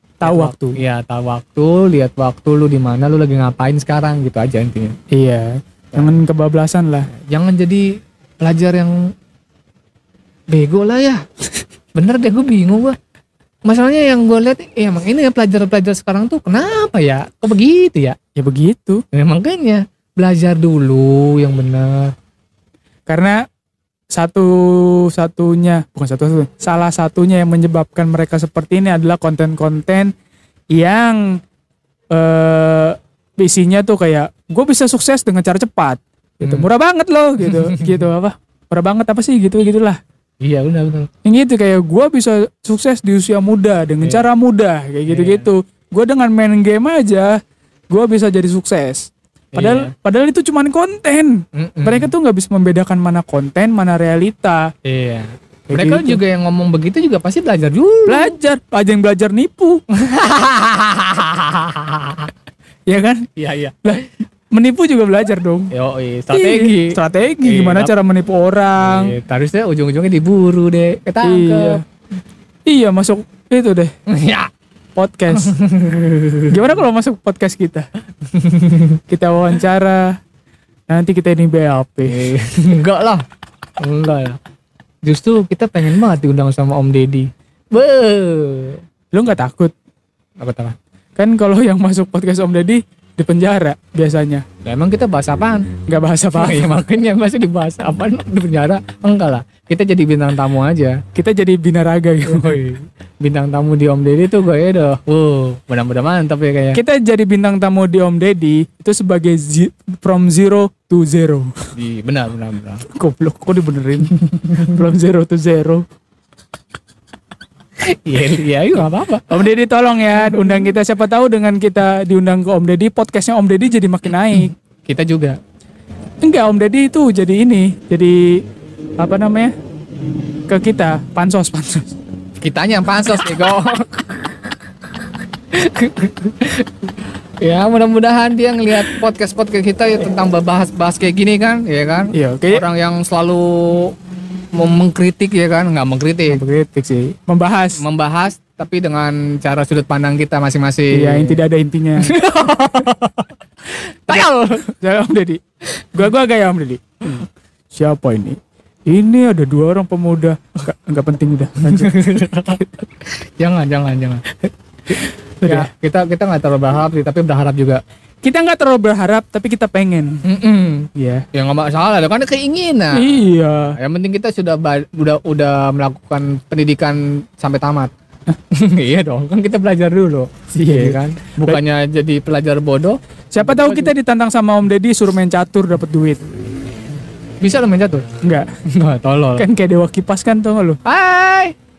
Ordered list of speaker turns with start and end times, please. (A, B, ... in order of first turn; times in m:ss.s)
0:00.2-0:00.8 A
0:00.2-0:05.0 B
0:05.1-0:07.1 A
0:05.9-0:06.2 B
0:07.1-0:09.1 B
0:10.5-0:11.2 B
0:11.9-0:13.0 B
0:13.6-0:18.2 B
0:18.4-0:19.0 A
0:19.1-0:22.1 B
0:23.1-0:23.4 A
0:24.1-0:30.1 A
0:30.7-0:31.4 A
0:32.1-0:40.0 A
0:36.4-0:36.7 B
0:37.4-0:38.0 B
0:40.4-0:41.1 B
0:41.2-0:47.4 A
0:44.0-0:44.3 B
0:45.1-0:45.5 B
0:47.9-0:54.7 A
0:49.5-0:49.9 B
0:51.5-0:52.1 B
0:54.8-0:58.3 B
0:55.7-0:56.2 A
0:58.1-0:59.8 A
0:59.9-1:02.3 B
1:02.9-1:03.3 A
1:03.4-1:04.0 B
1:03.8-1:05.7 A
1:05.7-1:07.9 B
1:06.3-1:09.1 A
1:08.8-1:11.8 B
1:11.2-1:11.8 A
1:12.6-1:13.9 A
1:14.1-1:14.5 B
1:15.0-1:15.5 A
1:15.3-1:16.7 B
1:16.5-1:17.8 A
1:18.3-1:19.0 B
1:19.1-1:20.2 A
1:20.9-1:22.2 A
1:22.0-1:23.2 B
1:23.8-1:24.4 B
1:25.0-1:28.8 B
1:29.1-1:29.7 A
1:30.4-1:30.8 B
1:31.2-1:34.4 A
1:34.6-1:35.7 B
1:35.9-1:36.7 A
1:36.3-1:41.0 B
1:41.1-1:42.6 A
1:42.2-1:46.8 B
1:46.7-1:51.5 A
1:51.8-1:52.8 B
1:52.9-1:55.8 A
1:57.8-1:59.4 B
1:59.3-2:04.5 A
2:04.8-2:05.4 B
2:06.2-2:08.4 A
2:09.0-2:09.5 A
2:10.5-2:12.0 A
2:12.4-2:14.6 B
2:15.5-2:23.9 B
2:22.1-2:22.6 A
2:24.5-2:26.4 B
2:26.3-2:27.8 A
2:27.8-2:31.4 B
2:30.9-2:32.2 A
2:32.0-2:34.7 B
2:34.8-2:35.4 A
2:35.9-2:38.4 A
2:38.9-2:41.9 A
2:41.6-2:47.8 B
2:45.4-2:45.7 A
2:48.2-2:50.2 A
2:50.2-2:57.9 B
2:51.0-2:51.2 A
2:52.9-2:53.8 A
2:58.5-3:03.9 B
3:00.5-3:01.6 A
3:03.3-3:06.2 A
3:07.4-3:08.1 B
3:08.2-3:08.5 A
3:08.6-3:09.5 B
3:09.4-3:10.8 A
3:10.8-3:11.5 B